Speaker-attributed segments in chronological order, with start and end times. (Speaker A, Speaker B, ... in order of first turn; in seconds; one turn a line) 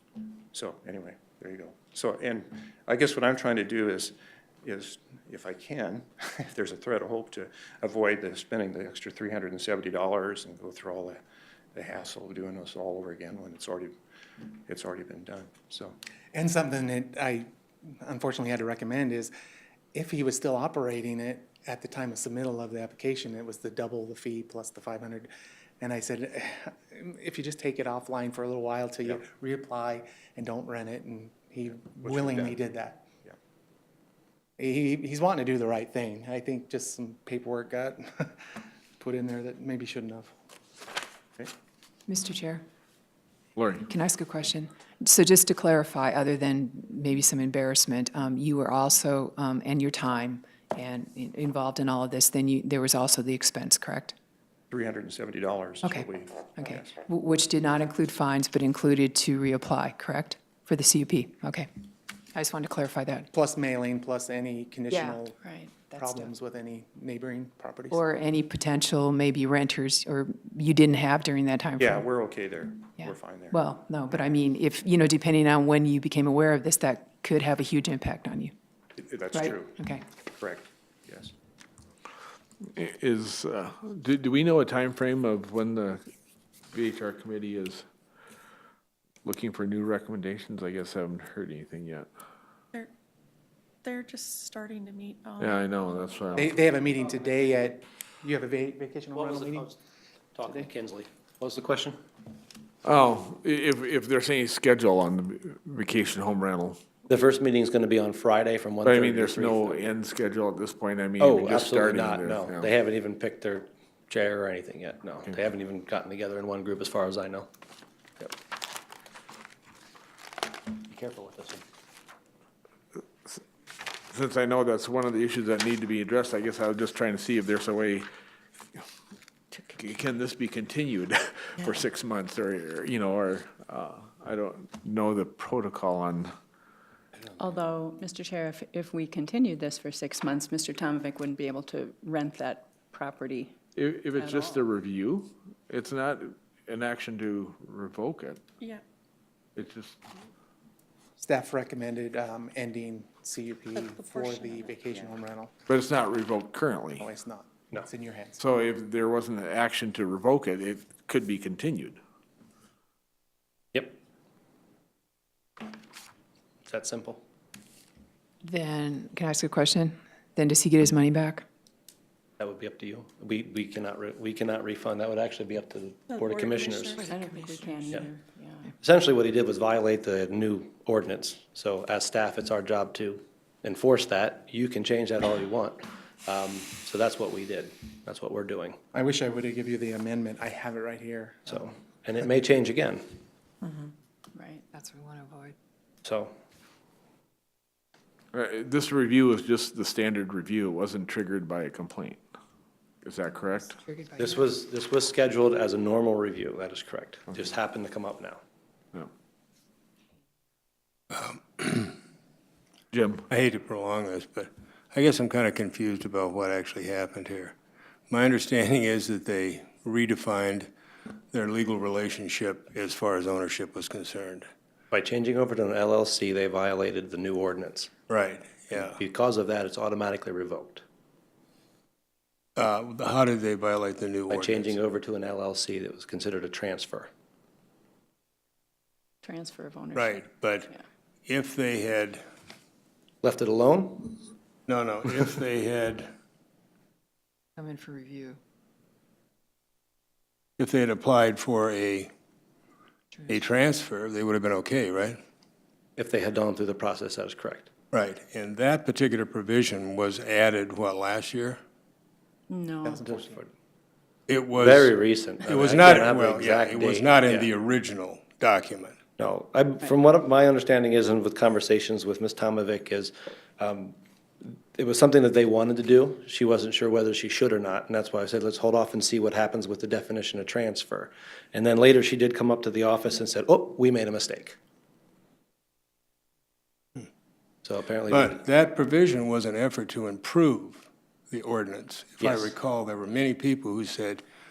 Speaker A: 0.5-11.2
Speaker A: 11.7-13.9
Speaker A: 14.6-16.0
Speaker B: 16.3-19.3
Speaker B: 19.9-33.1
Speaker A: 32.0-32.6
Speaker B: 34.6-38.5
Speaker B: 39.0-40.3
Speaker C: 42.1-42.6
Speaker D: 43.6-43.8
Speaker C: 43.9-54.1
Speaker A: 54.7-56.9
Speaker C: 55.8-61.7
Speaker C: 62.3-63.3
Speaker B: 63.3-65.4
Speaker C: 64.9-65.2
Speaker E: 65.4-65.7
Speaker C: 65.9-66.3
Speaker B: 65.9-68.0
Speaker C: 67.9-72.1
Speaker A: 71.8-73.6
Speaker C: 73.0-78.5
Speaker A: 79.0-79.8
Speaker C: 79.3-80.0
Speaker A: 80.4-81.3
Speaker D: 82.8-86.0
Speaker D: 86.7-87.8
Speaker D: 89.2-92.1
Speaker F: 93.8-97.7
Speaker D: 95.4-96.5
Speaker B: 96.4-99.6
Speaker G: 99.1-99.8
Speaker G: 100.3-102.0
Speaker D: 102.8-106.8
Speaker G: 107.1-109.9
Speaker D: 108.8-112.7
Speaker G: 111.2-117.5
Speaker G: 120.7-121.6
Speaker D: 124.1-128.1
Speaker D: 129.6-136.3
Speaker E: 137.4-143.5
Speaker D: 143.8-148.4
Speaker E: 144.1-144.6
Speaker D: 149.6-150.0
Speaker B: 151.2-155.5
Speaker F: 153.7-155.2
Speaker D: 155.7-157.1
Speaker B: 157.0-158.4
Speaker D: 158.4-162.0
Speaker G: 163.7-164.0
Speaker G: 166.7-167.2
Speaker C: 168.4-171.4
Speaker G: 172.4-177.0
Speaker F: 176.1-177.9
Speaker E: 177.0-178.7
Speaker G: 178.8-188.8
Speaker B: 188.9-191.7
Speaker G: 191.5-193.2
Speaker C: 193.6-193.9
Speaker E: 194.3-194.6
Speaker C: 194.7-195.5
Speaker G: 196.0-196.3
Speaker D: 198.3-202.2
Speaker D: 203.0-203.8
Speaker C: 203.8-204.5
Speaker G: 204.2-208.4
Speaker H: 211.1-211.9
Speaker D: 212.9-213.2
Speaker H: 213.3-217.5
Speaker H: 218.1-220.7
Speaker H: 221.3-224.5
Speaker G: 224.9-227.9
Speaker H: 228.1-229.0
Speaker G: 228.7-230.8
Speaker H: 232.6-234.8
Speaker G: 234.3-237.1
Speaker E: 239.2-240.8
Speaker H: 239.9-240.7
Speaker H: 241.3-242.2
Speaker G: 243.2-244.3
Speaker H: 244.7-246.1
Speaker C: 247.6-248.4
Speaker H: 250.6-252.1
Speaker C: 253.1-253.4
Speaker H: 253.3-255.2
Speaker G: 256.0-257.7
Speaker H: 257.9-261.6
Speaker E: 262.5-263.0
Speaker B: 262.8-263.4
Speaker G: 263.1-263.4
Speaker H: 264.3-269.0
Speaker G: 264.5-267.5
Speaker G: 269.2-284.6
Speaker G: 287.6-288.4
Speaker H: 288.1-294.2
Speaker G: 292.2-292.5